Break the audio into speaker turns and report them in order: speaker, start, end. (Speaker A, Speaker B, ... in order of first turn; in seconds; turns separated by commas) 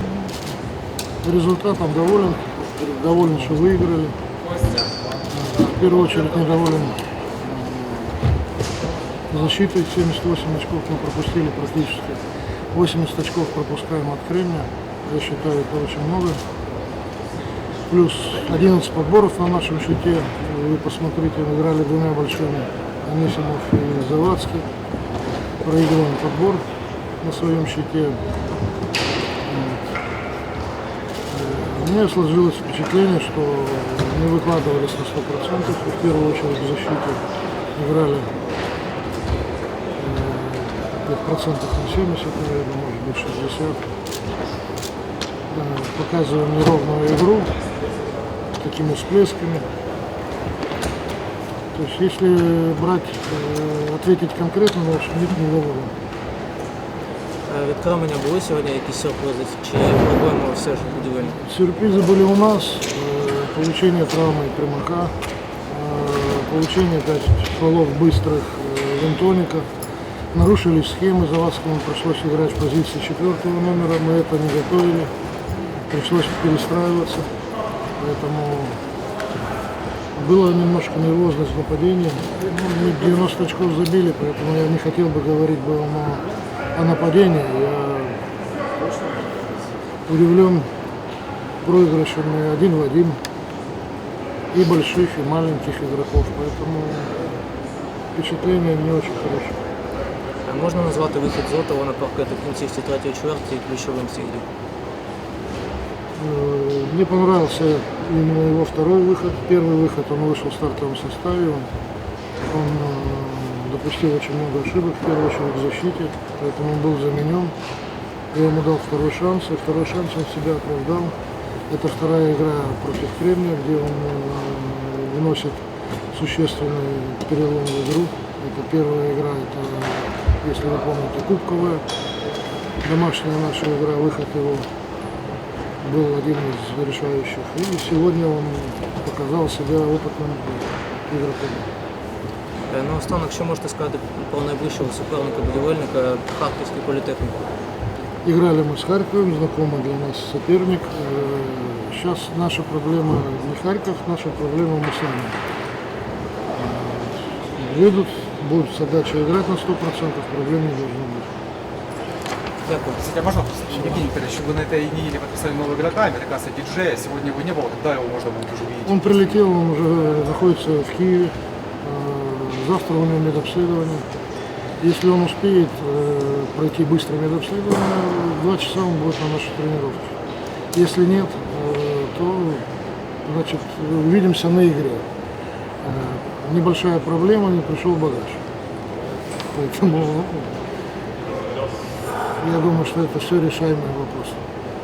Speaker A: 1.2-4.2, Speaker A: 5.3-8.2, Speaker A: 9.3-16.4, Speaker A: 17.9-24.7, Speaker A: 25.6-26.7, Speaker A: 27.2-28.2, Speaker A: 29.5-29.9, Speaker A: 31.3-37.2, Speaker A: 37.8-38.4, Speaker A: 40.0-43.9, Speaker A: 45.5-47.5, Speaker A: 48.6-49.6, Speaker A: 51.7-55.9, Speaker B: 57.5-61.4, Speaker A: 61.4-69.7, Speaker A: 70.3-75.1, Speaker A: 75.9-77.3, Speaker A: 78.0-78.8, Speaker A: 80.2-88.3, Speaker A: 90.1-90.7, Speaker A: 91.6-93.2, Speaker A: 94.5-97.3, Speaker A: 98.1-99.6, Speaker B: 100.5-104.5, Speaker A: 106.2-111.7, Speaker A: 112.5-117.6, Speaker A: 118.3-121.2, Speaker A: 121.7-131.8, Speaker A: 132.8-134.7, Speaker A: 135.8-141.7, Speaker B: 142.7-147.4, Speaker A: 148.2-155.4, Speaker A: 156.5-161.3, Speaker B: 162.7-163.0, Speaker C: 163.0-169.4, Speaker A: 168.9-174.1, Speaker A: 174.8-180.2, Speaker A: 180.7-182.7, Speaker A: 183.2-185.1, Speaker A: 185.8-188.4, Speaker A: 189.5-190.6, Speaker A: 192.4-194.4